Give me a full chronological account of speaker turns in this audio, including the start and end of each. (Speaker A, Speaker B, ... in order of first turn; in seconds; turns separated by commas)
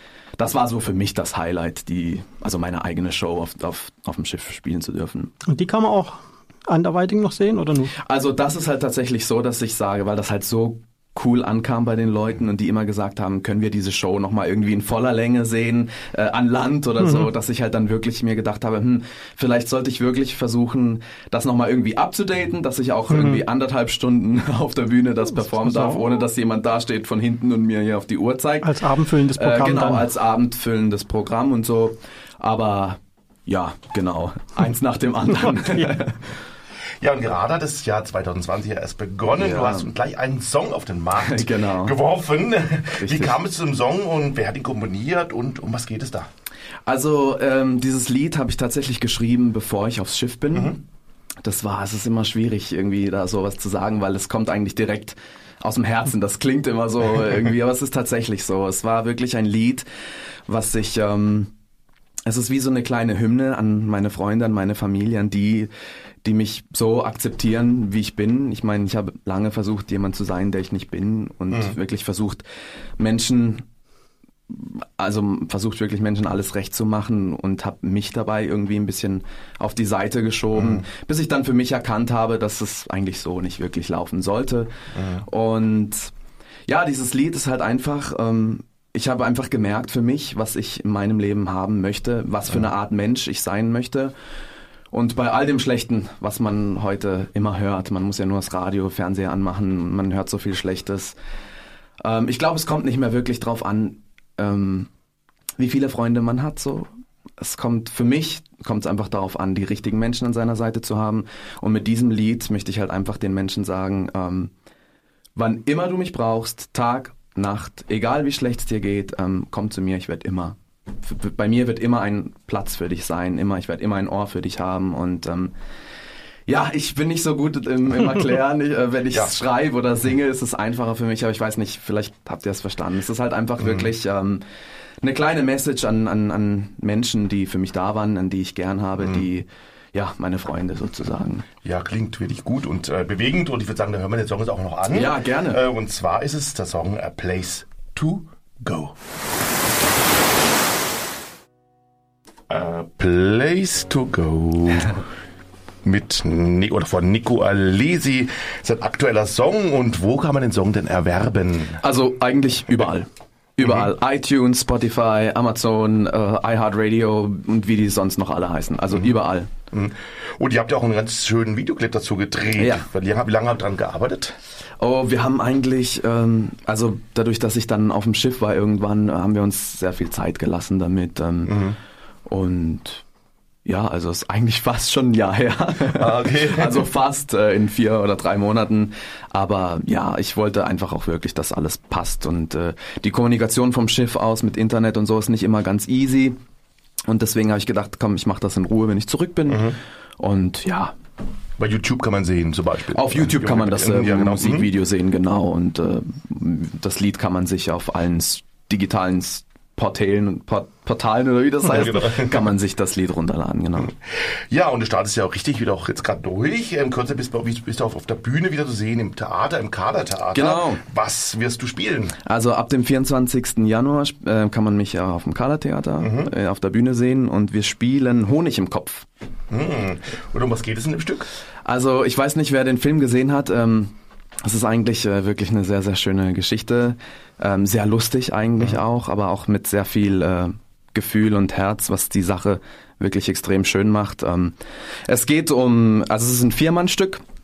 Speaker A: 0.4-5.3, Speaker B: 5.5-7.9, Speaker A: 8.0-36.4, Speaker B: 17.0-17.3, Speaker B: 23.1-23.4, Speaker B: 25.4-26.0, Speaker B: 28.6-30.1, Speaker B: 35.3-35.9, Speaker C: 37.0-46.3, Speaker A: 39.4-39.9, Speaker A: 41.2-42.0, Speaker A: 43.0-43.4, Speaker A: 46.9-50.8, Speaker C: 50.5-50.8, Speaker A: 51.4-59.9, Speaker A: 60.5-61.5, Speaker A: 62.2-65.7, Speaker A: 66.2-72.4, Speaker C: 71.5-71.8, Speaker A: 73.0-73.6, Speaker A: 74.5-86.1, Speaker C: 80.5-80.8, Speaker C: 84.9-85.2, Speaker A: 86.7-94.1, Speaker A: 94.9-101.2, Speaker A: 102.0-104.9, Speaker A: 105.6-114.5, Speaker A: 115.4-125.5, Speaker A: 126.5-134.4, Speaker C: 133.6-133.9, Speaker A: 135.0-141.4, Speaker C: 139.0-139.2, Speaker C: 141.6-149.0, Speaker A: 144.9-145.6, Speaker C: 152.5-155.0, Speaker C: 155.8-161.8, Speaker A: 161.8-169.5, Speaker C: 163.6-163.9, Speaker C: 169.7-174.4, Speaker A: 172.6-172.9, Speaker A: 174.8-181.7, Speaker C: 181.4-181.8, Speaker A: 182.3-183.0, Speaker A: 183.6-196.4, Speaker C: 185.9-186.9, Speaker A: 197.1-200.9, Speaker C: 199.5-199.8, Speaker C: 201.6-204.7, Speaker A: 202.9-213.9, Speaker C: 211.6-212.4, Speaker C: 213.8-222.2, Speaker A: 220.3-220.8, Speaker A: 222.2-229.1, Speaker C: 226.0-226.3, Speaker C: 229.5-231.3, Speaker A: 231.6-247.2